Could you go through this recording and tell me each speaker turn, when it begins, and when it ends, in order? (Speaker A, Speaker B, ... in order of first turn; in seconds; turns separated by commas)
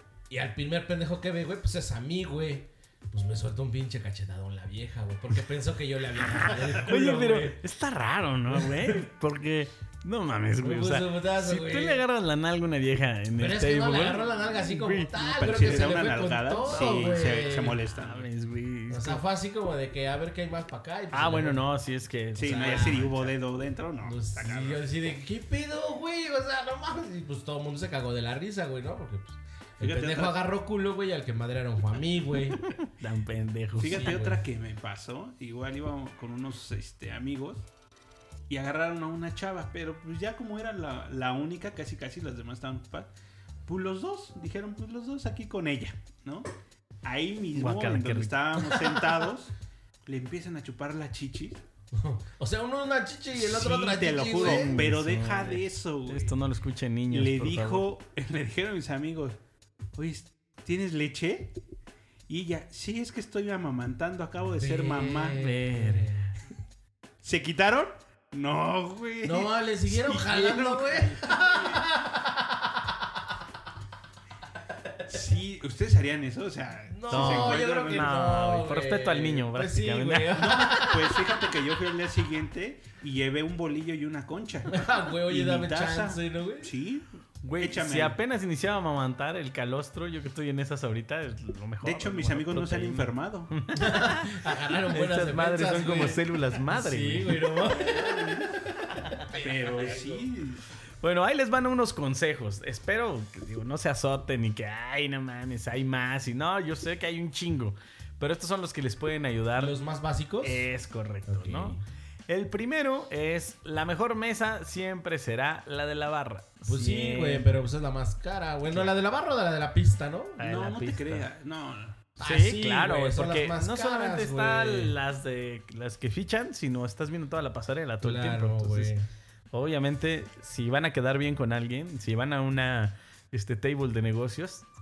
Speaker A: 0.3-7.6, Speaker B: 6.3-15.1, Speaker A: 8.5-9.1, Speaker A: 10.6-12.0, Speaker A: 13.3-17.8, Speaker C: 15.1-18.3, Speaker B: 16.6-19.2, Speaker A: 18.9-21.7, Speaker B: 21.1-23.3, Speaker A: 22.3-23.1, Speaker C: 22.4-25.0, Speaker A: 24.0-32.6, Speaker C: 29.8-30.4, Speaker B: 32.6-34.4, Speaker C: 33.8-37.6, Speaker A: 33.8-34.3, Speaker C: 38.5-43.1, Speaker C: 43.6-46.5, Speaker C: 47.0-49.5, Speaker B: 47.5-49.1, Speaker C: 50.0-51.6, Speaker A: 51.9-55.0, Speaker C: 53.3-56.4, Speaker B: 54.4-57.9, Speaker C: 57.1-59.4, Speaker C: 59.9-61.5, Speaker C: 62.3-65.4, Speaker A: 64.6-66.2, Speaker B: 65.3-66.3, Speaker C: 67.2-71.9, Speaker A: 69.2-73.2, Speaker C: 75.0-78.1, Speaker A: 76.9-81.5, Speaker B: 77.1-80.9, Speaker C: 80.3-87.1, Speaker A: 84.7-86.7, Speaker B: 87.4-97.7, Speaker C: 87.6-88.2, Speaker C: 91.8-93.5, Speaker A: 93.7-100.2, Speaker C: 97.8-98.5, Speaker B: 98.8-99.3, Speaker C: 99.3-100.7, Speaker B: 101.0-109.7, Speaker A: 109.5-110.7, Speaker B: 110.4-117.5, Speaker A: 111.3-111.8, Speaker A: 116.7-120.4, Speaker B: 120.4-121.3, Speaker C: 120.4-122.0, Speaker A: 122.2-124.9, Speaker B: 122.2-128.9, Speaker A: 128.0-129.1, Speaker B: 129.5-134.7